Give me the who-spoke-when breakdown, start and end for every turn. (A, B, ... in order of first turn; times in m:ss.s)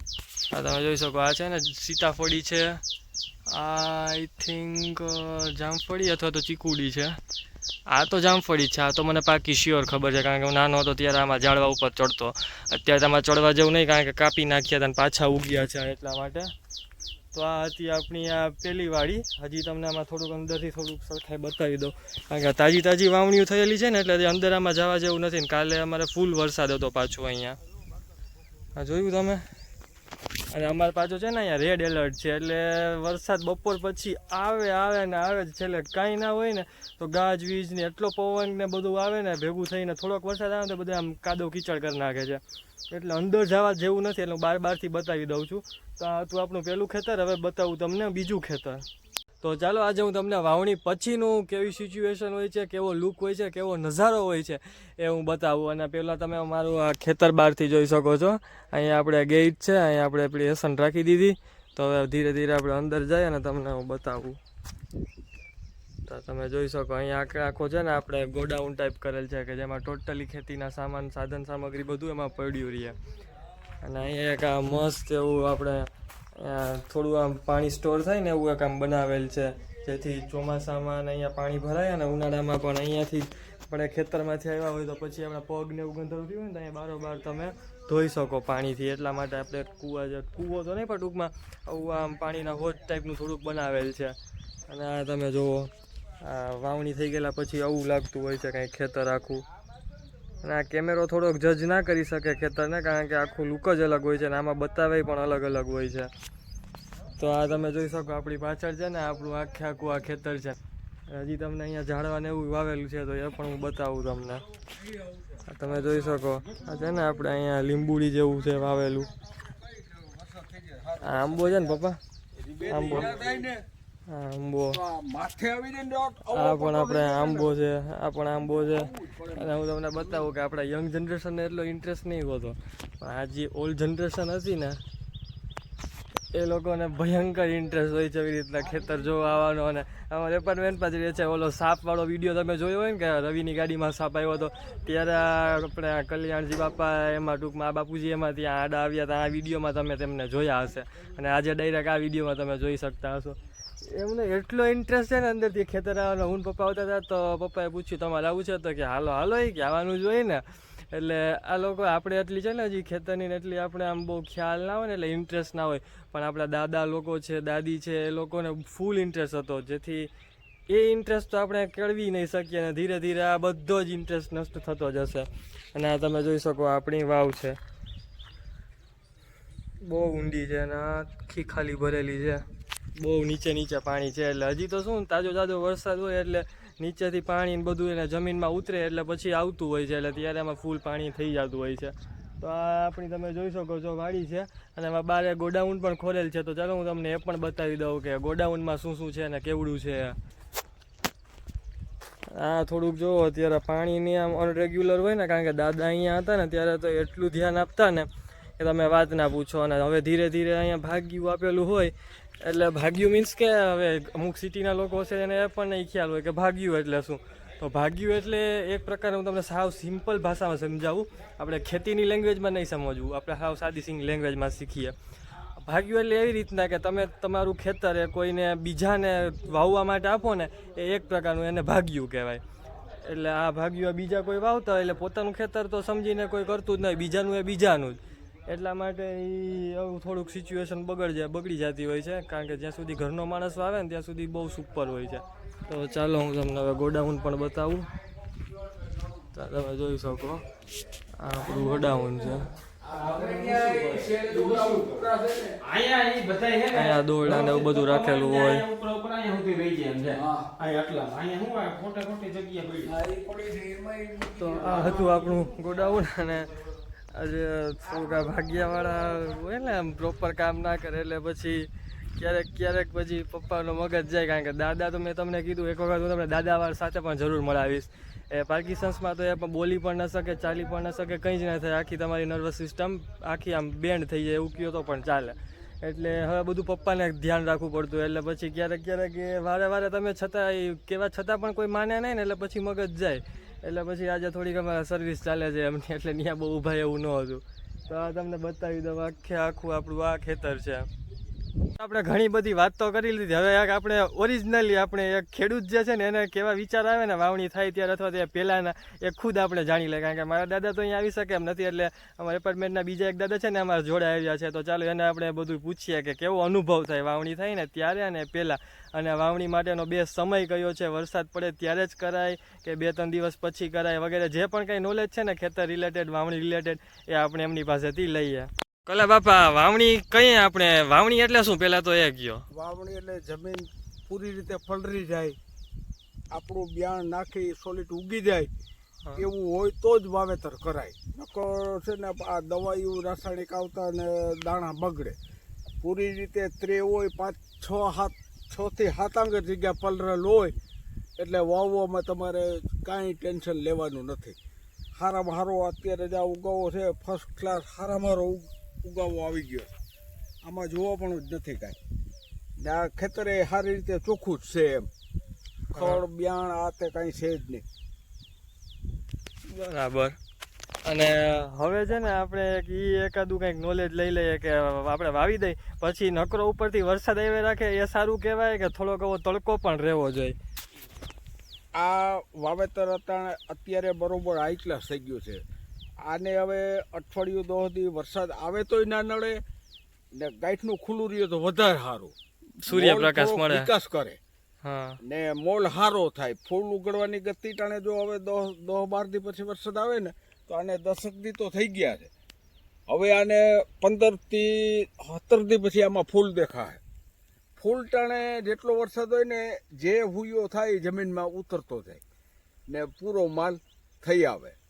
0:00.5-0:02.8 A
0:03.5-0:07.2 A
0:07.9-0:16.5 A
0:17.3-0:27.6 A
0:28.7-0:29.4 A
0:30.5-0:42.4 A
0:42.9-0:48.8 A
0:49.4-1:04.4 A
1:06.0-1:13.0 A
1:13.8-1:34.2 A
1:34.7-1:39.4 A
1:40.4-1:46.1 A
1:47.2-1:54.4 A
1:54.8-1:55.4 B
1:55.5-1:59.1 A
1:59.1-2:01.8 B
2:01.0-2:02.0 A
2:02.4-2:03.6 B
2:02.7-2:03.2 A
2:04.1-2:04.8 A
2:04.7-2:07.6 B
2:06.3-2:14.8 A
2:08.5-2:10.3 B
2:16.3-2:50.1 A
2:50.7-2:57.6 A
2:59.8-3:02.4 A
3:03.0-3:20.2 A
3:22.3-3:45.0 A
3:45.6-3:52.4 A
3:53.0-4:07.9 A
4:09.3-4:10.4 A
4:11.2-4:12.5 A
4:12.8-4:15.6 B
4:12.9-4:23.0 C
4:16.7-4:18.7 A
4:20.1-4:20.5 B
4:22.8-4:25.4 B
4:24.4-4:26.5 A
4:27.1-5:00.9 A
5:01.7-5:32.4 A
5:32.5-5:35.4 B
5:36.3-5:38.5 B
5:39.2-5:45.2 B
5:45.8-5:50.5 B
5:51.2-5:54.4 B
5:54.9-5:59.7 B
6:00.4-6:01.8 B
6:02.6-6:04.9 B
6:05.7-6:07.6 B
6:05.7-6:06.0 A
6:09.5-6:10.2 A
6:10.8-6:20.4 A
6:21.7-6:25.4 B
6:26.0-6:29.4 B
6:30.1-6:32.1 B
6:32.6-6:33.7 A
6:32.7-6:34.2 B
6:34.6-6:35.0 A
6:35.0-6:42.1 B
6:42.9-6:46.8 B
6:47.6-6:52.0 B
6:52.7-6:54.6 B